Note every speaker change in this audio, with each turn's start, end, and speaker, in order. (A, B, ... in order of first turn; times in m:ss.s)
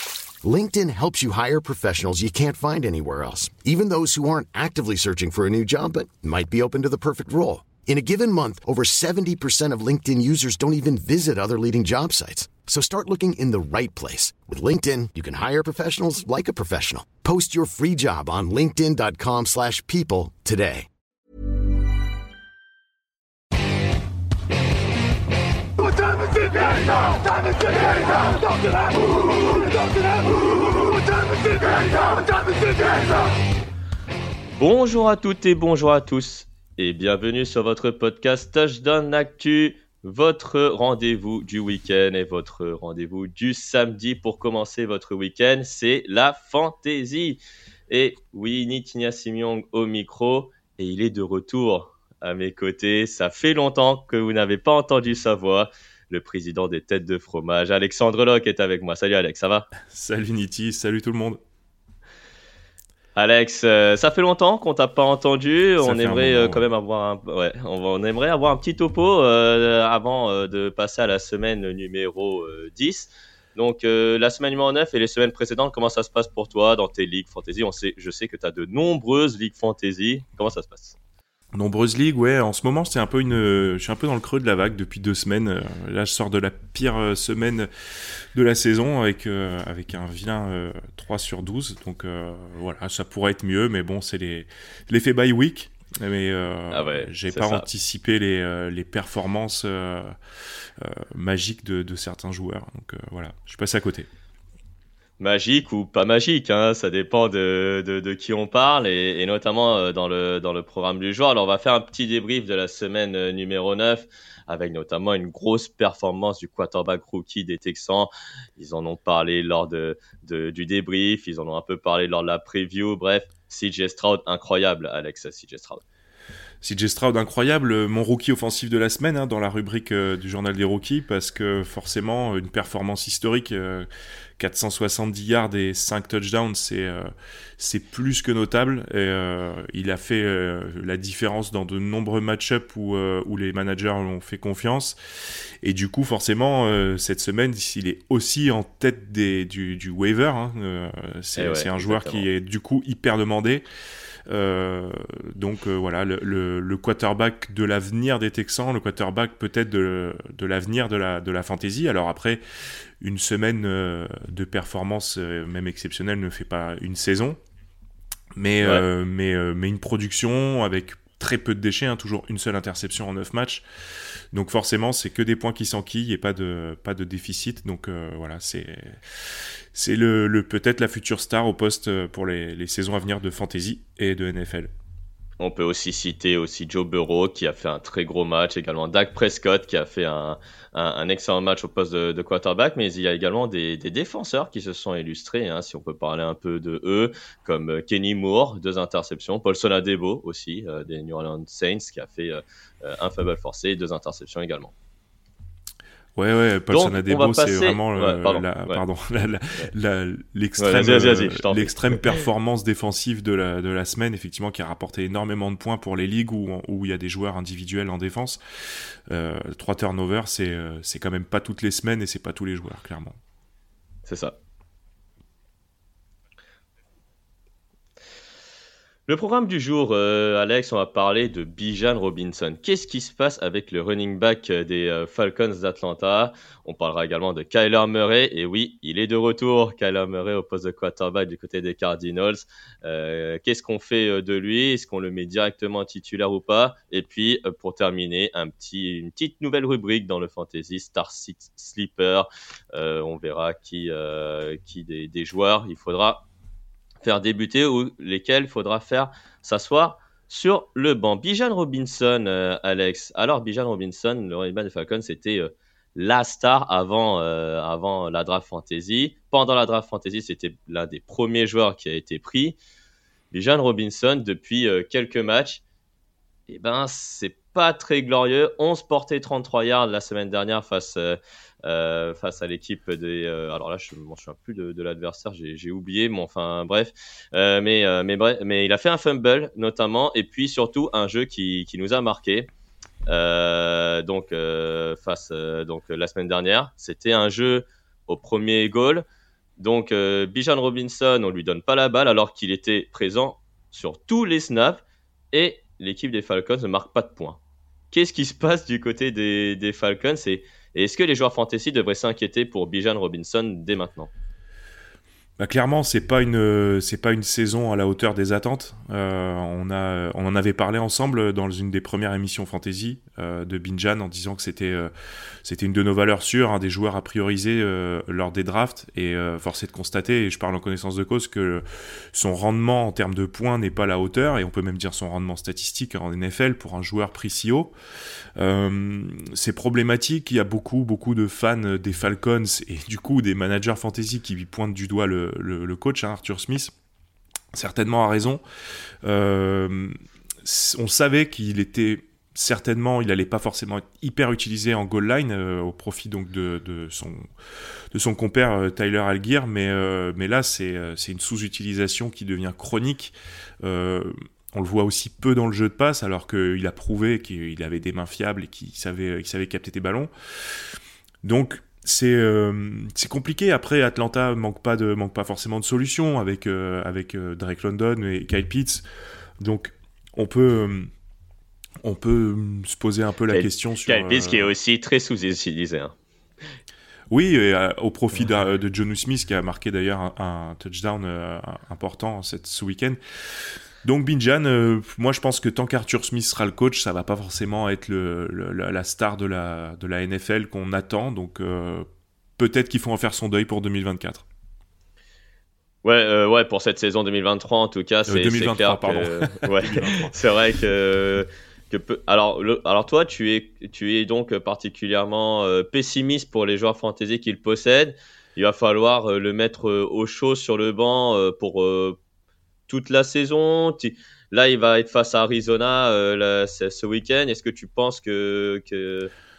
0:00.4-0:20.9 A
0:26.2-0:28.3 A
0:34.6-0:59.7 B
0:59.9-1:01.4 C
1:03.2-1:21.0 B
1:05.8-1:06.6 C
1:21.5-1:40.2 C
1:36.7-1:37.7 B
1:40.8-1:44.1 C
1:45.2-2:05.8 B
2:06.6-2:13.9 C
2:14.4-2:25.0 C
2:25.6-2:33.6 C
2:31.4-2:32.3 B
2:34.3-2:47.4 C
2:48.4-2:53.6 C
2:54.3-3:04.7 C
3:05.4-3:24.7 B
3:26.2-3:43.2 C
3:26.7-3:28.8 B
3:30.6-3:32.0 B
3:44.1-3:44.4 B
3:49.1-4:16.3 B
4:17.0-4:32.6 B
4:33.3-4:35.6 B
4:36.5-4:52.5 B
4:53.1-4:59.0 B
4:59.6-5:04.8 B
5:05.3-5:07.4 B
5:07.9-5:14.1 B
5:15.4-5:24.9 C
5:25.4-5:37.7 C
5:38.4-5:46.7 C
5:47.5-5:48.4 C
5:49.0-5:57.3 C
5:57.9-6:10.6 C
6:11.2-6:18.8 C
6:19.4-6:20.9 C
6:21.8-6:24.5 C
6:23.3-6:26.0 B
6:27.1-6:41.9 C
6:42.4-6:44.2 C
6:45.8-7:02.0 B
6:48.1-6:50.2 C
7:02.7-7:09.1 B